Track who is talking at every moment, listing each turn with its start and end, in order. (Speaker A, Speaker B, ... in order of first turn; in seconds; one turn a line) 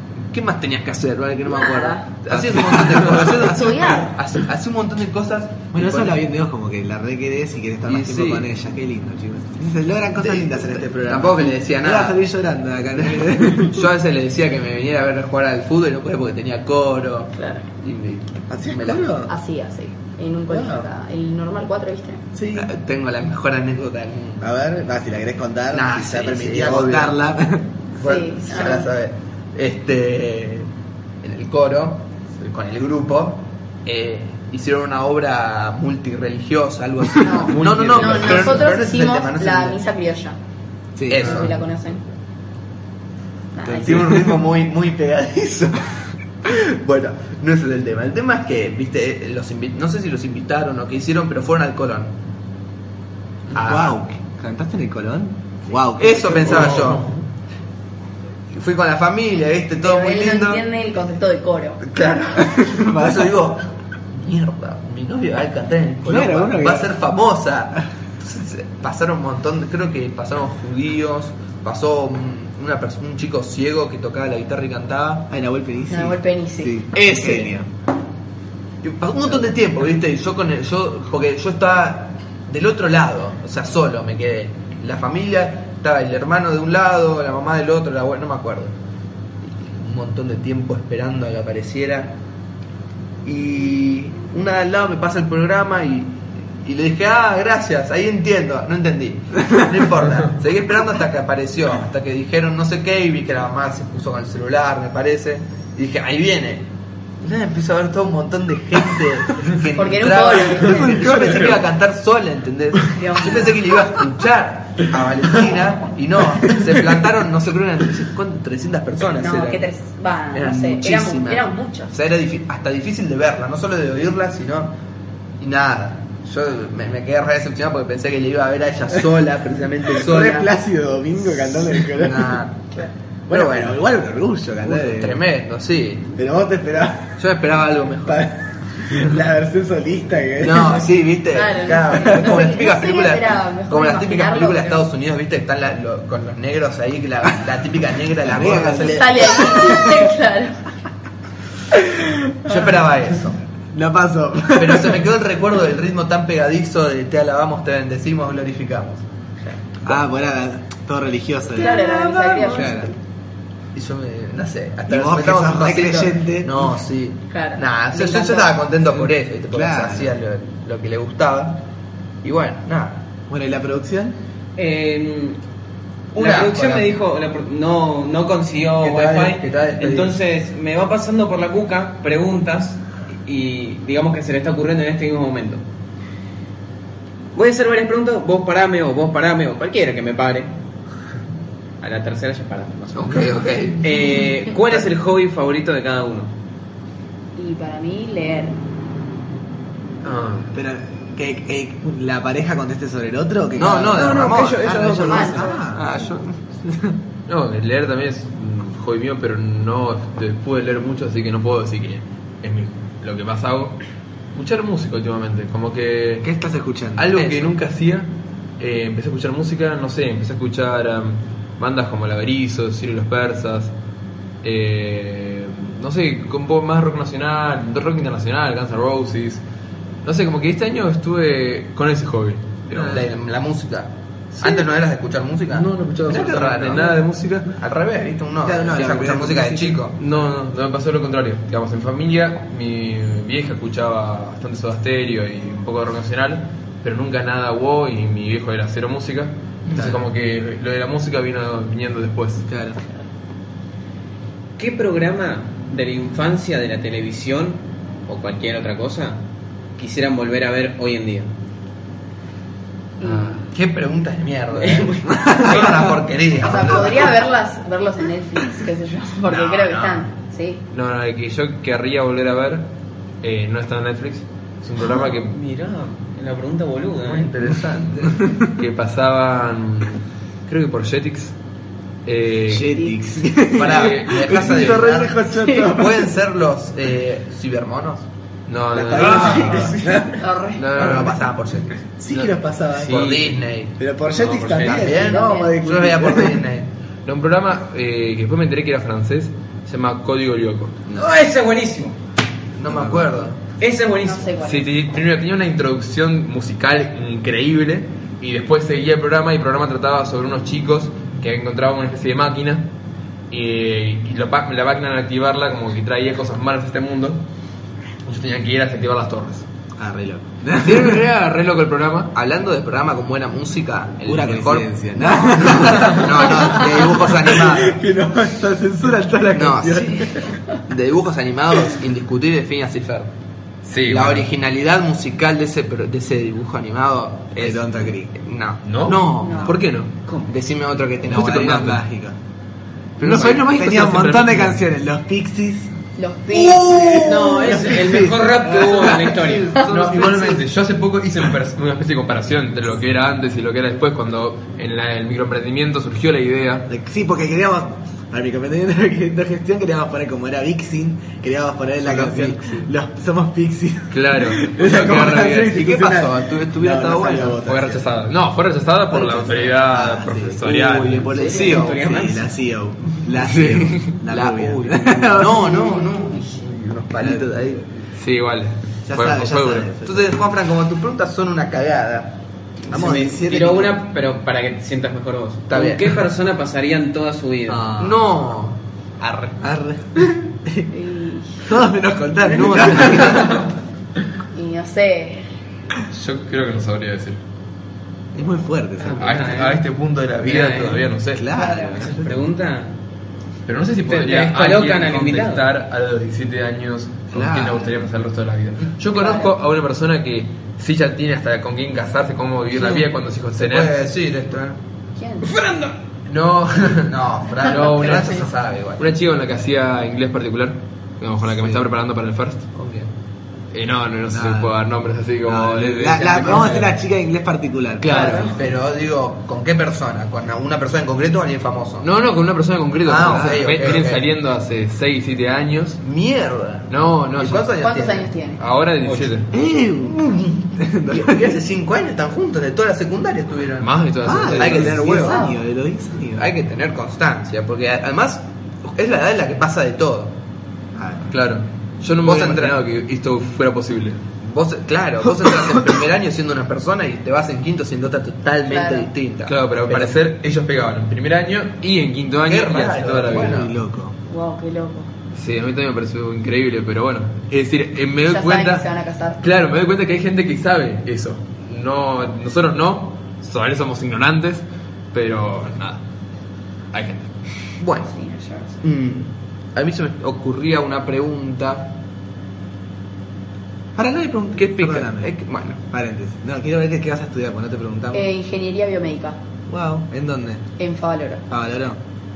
Speaker A: 0.3-6.2
Speaker B: 1.5-2.1
Speaker C: 2.3-3.5
Speaker B: 3.4-4.1
Speaker C: 5.7-13.9
Speaker A: 7.9-8.5
Speaker A: 10.2-12.2
Speaker A: 13.0-19.3
Speaker B: 17.4-17.7
Speaker C: 18.5-19.3
Speaker B: 19.3-22.2
Speaker C: 20.5-20.9
Speaker C: 22.3-22.7
Speaker A: 22.6-24.5
Speaker C: 24.4-27.7
Speaker A: 25.7-27.2
Speaker A: 28.0-30.7
Speaker B: 28.0-28.9
Speaker A: 31.2-39.8
Speaker B: 37.2-40.4
Speaker D: 37.5-38.6
Speaker C: 41.0-41.5
Speaker A: 41.1-41.6
Speaker B: 41.2-42.0
Speaker B: 43.5-44.2
Speaker C: 43.6-44.4
Speaker A: 43.8-45.9
Speaker A: 46.4-52.1
Speaker A: 53.5-54.0
Speaker C: 53.5-57.0
Speaker A: 56.0-57.1
Speaker D: 56.5-57.0
Speaker A: 58.5-60.6
Speaker B: 59.8-61.8
Speaker A: 61.8-75.3
Speaker C: 62.4-63.4
Speaker C: 66.0-66.9
Speaker C: 75.3-77.7
Speaker B: 75.9-76.8
Speaker A: 77.2-77.5
Speaker A: 78.8-88.7
Speaker A: 89.6-92.2
Speaker A: 93.2-106.7
Speaker A: 107.2-119.7
Speaker B: 109.8-111.0
Speaker C: 110.6-111.5
Speaker D: 111.2-111.5
Speaker B: 112.9-113.6
Speaker B: 119.2-121.9
Speaker A: 120.3-124.7
Speaker A: 125.4-130.5
Speaker C: 129.9-132.4
Speaker A: 131.7-133.8
Speaker C: 133.3-135.2
Speaker A: 134.6-136.1
Speaker C: 136.2-137.2
Speaker A: 137.2-138.2
Speaker C: 138.1-141.0
Speaker A: 140.4-149.6
Speaker B: 141.3-144.8
Speaker C: 141.9-142.4
Speaker C: 148.2-150.1
Speaker B: 148.9-150.6
Speaker C: 151.7-152.8
Speaker A: 152.4-153.4
Speaker C: 153.7-155.1
Speaker A: 154.6-159.0
Speaker C: 159.8-162.9
Speaker B: 161.5-163.0
Speaker A: 163.7-171.6
Speaker C: 164.9-166.8
Speaker B: 167.3-168.6
Speaker C: 168.9-170.2
Speaker A: 172.2-173.0
Speaker C: 173.3-174.2
Speaker E: 174.6-175.4
Speaker E: 176.1-185.6
Speaker A: 176.2-176.9
Speaker A: 178.8-180.2
Speaker E: 187.3-190.5
Speaker E: 191.8-193.3
Speaker A: 192.9-193.8
Speaker E: 193.8-196.3
Speaker B: 197.4-198.6
Speaker D: 200.0-200.5
Speaker C: 200.5-205.9
Speaker A: 203.6-206.4
Speaker E: 203.9-205.4
Speaker B: 205.1-205.6
Speaker C: 206.6-207.0
Speaker D: 207.3-213.8
Speaker D: 214.3-216.3
Speaker C: 216.2-217.1
Speaker D: 217.0-223.7
Speaker A: 217.1-217.5
Speaker D: 224.4-229.4
Speaker D: 230.0-233.1
Speaker C: 232.7-233.1
Speaker A: 232.9-237.0
Speaker D: 234.3-234.7
Speaker D: 235.5-237.5
Speaker A: 237.5-240.0
Speaker C: 238.4-239.8
Speaker D: 240.0-252.5
Speaker A: 249.7-249.9
Speaker C: 249.7-250.0
Speaker C: 252.5-252.8
Speaker E: 254.6-259.2
Speaker E: 259.8-261.3
Speaker B: 263.0-263.4
Speaker D: 263.0-263.4
Speaker A: 263.5-267.2
Speaker E: 264.6-265.9
Speaker B: 266.4-270.6
Speaker A: 269.3-270.1
Speaker D: 270.7-272.7
Speaker D: 273.2-275.4
Speaker E: 275.0-277.3
Speaker A: 277.1-278.3
Speaker D: 278.5-281.4
Speaker D: 282.1-282.8
Speaker C: 282.5-286.1
Speaker A: 283.5-288.1
Speaker D: 283.6-284.7
Speaker B: 285.4-285.7
Speaker D: 288.5-291.3
Speaker C: 288.7-290.2
Speaker A: 289.0-289.6
Speaker B: 290.2-290.7
Speaker A: 290.7-291.8
Speaker C: 292.0-293.2
Speaker D: 292.1-293.4
Speaker A: 292.9-293.7
Speaker C: 293.8-296.5
Speaker D: 294.1-294.9
Speaker A: 294.6-296.7
Speaker B: 294.9-295.6
Speaker D: 297.1-300.9
Speaker E: 300.9-302.0
Speaker A: 302.6-303.4
Speaker C: 302.7-303.1
Speaker E: 303.6-304.3
Speaker B: 304.0-304.7
Speaker D: 304.4-312.7
Speaker D: 313.3-317.2
Speaker D: 318.1-319.5
Speaker C: 319.8-321.0
Speaker D: 320.6-322.1
Speaker A: 322.1-327.8
Speaker C: 324.1-330.3
Speaker A: 329.3-333.1
Speaker D: 333.7-334.3
Speaker A: 333.9-341.8
Speaker C: 337.4-338.1
Speaker D: 338.6-339.9
Speaker B: 339.2-339.6
Speaker E: 340.1-340.3
Speaker C: 341.1-342.2
Speaker D: 341.1-341.8
Speaker A: 343.0-343.4
Speaker C: 343.0-345.7
Speaker D: 343.0-344.6
Speaker B: 346.0-347.1
Speaker C: 346.3-349.4
Speaker E: 347.0-349.7
Speaker A: 349.6-350.4
Speaker D: 349.6-356.7
Speaker C: 356.7-367.9
Speaker D: 362.1-362.6
Speaker D: 363.9-365.3
Speaker A: 364.6-367.4
Speaker D: 367.4-371.1
Speaker C: 368.9-375.8
Speaker A: 371.1-371.8
Speaker E: 371.2-372.3
Speaker D: 373.2-374.0
Speaker A: 374.1-377.7
Speaker B: 375.5-375.9
Speaker C: 377.0-377.3
Speaker D: 378.0-379.7
Speaker C: 378.9-380.1
Speaker A: 379.8-383.2
Speaker C: 382.7-383.8
Speaker E: 383.2-387.7
Speaker A: 385.5-385.9
Speaker A: 387.7-389.4
Speaker C: 389.4-390.7
Speaker B: 390.7-391.5
Speaker C: 391.4-393.4
Speaker A: 392.3-393.5
Speaker B: 394.3-395.3
Speaker D: 395.9-397.2
Speaker C: 398.1-399.2
Speaker E: 398.8-399.7
Speaker D: 399.0-401.3
Speaker E: 400.2-400.9
Speaker C: 401.1-402.3
Speaker B: 401.3-401.8
Speaker E: 401.7-402.7
Speaker D: 403.5-413.8
Speaker E: 403.9-405.4
Speaker C: 407.1-407.8
Speaker B: 408.9-409.3
Speaker A: 412.6-412.8
Speaker A: 413.4-414.6
Speaker B: 415.0-415.3
Speaker A: 416.1-418.9
Speaker D: 417.4-422.5
Speaker A: 421.4-421.6
Speaker A: 422.6-422.9
Speaker D: 423.5-426.8
Speaker C: 424.1-424.6
Speaker C: 425.2-428.4
Speaker D: 427.8-428.4
Speaker B: 427.9-428.3
Speaker A: 427.9-431.9
Speaker D: 431.8-435.8
Speaker A: 432.9-434.0
Speaker A: 435.8-438.1
Speaker D: 436.7-437.5
Speaker B: 437.6-438.4
Speaker D: 438.4-439.3
Speaker C: 439.3-440.1
Speaker A: 439.8-445.2
Speaker C: 440.6-441.4
Speaker D: 443.6-444.9
Speaker C: 444.0-446.3
Speaker B: 444.9-445.4
Speaker A: 446.2-450.1
Speaker C: 450.8-451.1
Speaker D: 451.1-454.0
Speaker A: 452.0-452.6
Speaker A: 454.2-459.9
Speaker C: 455.2-455.8
Speaker B: 458.5-458.9
Speaker D: 459.3-463.5
Speaker A: 462.3-463.5
Speaker C: 463.1-463.9
Speaker B: 464.1-464.9
Speaker D: 465.1-468.7
Speaker B: 468.1-469.2
Speaker D: 469.2-475.8
Speaker D: 476.7-477.1
Speaker A: 477.6-477.9
Speaker B: 477.8-478.6
Speaker A: 478.6-481.7
Speaker C: 483.8-485.1
Speaker A: 484.4-485.6
Speaker C: 485.7-488.1
Speaker B: 487.9-489.2
Speaker C: 489.5-490.4
Speaker B: 490.6-491.2
Speaker C: 491.3-491.8